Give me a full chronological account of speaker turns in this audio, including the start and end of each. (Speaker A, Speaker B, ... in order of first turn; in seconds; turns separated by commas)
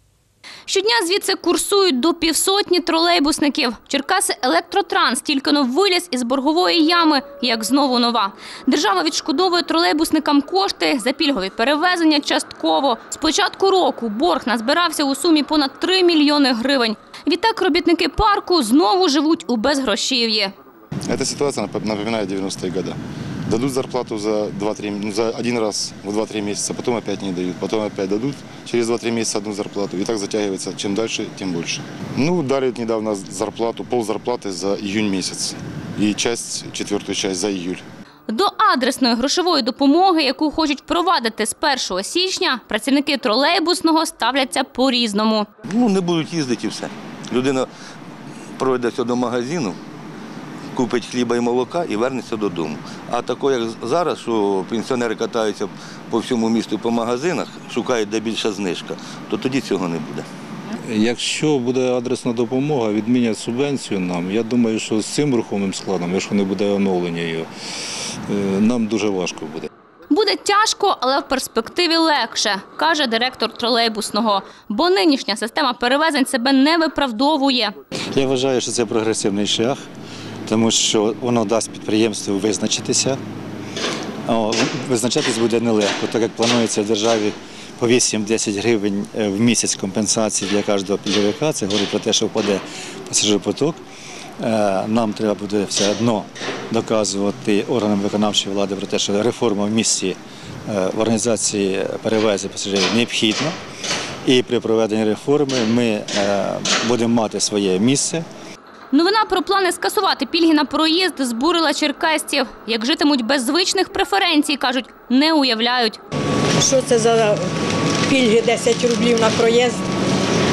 Speaker A: 0.7-20.5, Speaker B: 21.1-37.8, Speaker A: 38.3-45.5, Speaker C: 45.6-47.7, Speaker C: 48.6-49.8, Speaker C: 50.7-60.3, Speaker D: 60.8-67.5, Speaker D: 68.3-69.7, Speaker A: 70.1-77.7, Speaker E: 78.1-79.8, Speaker E: 80.5-83.2, Speaker E: 84.3-93.8, Speaker E: 94.4-103.5, Speaker E: 104.2-108.2, Speaker A: 108.9-116.0, Speaker F: 116.6-117.4, Speaker F: 118.1-119.8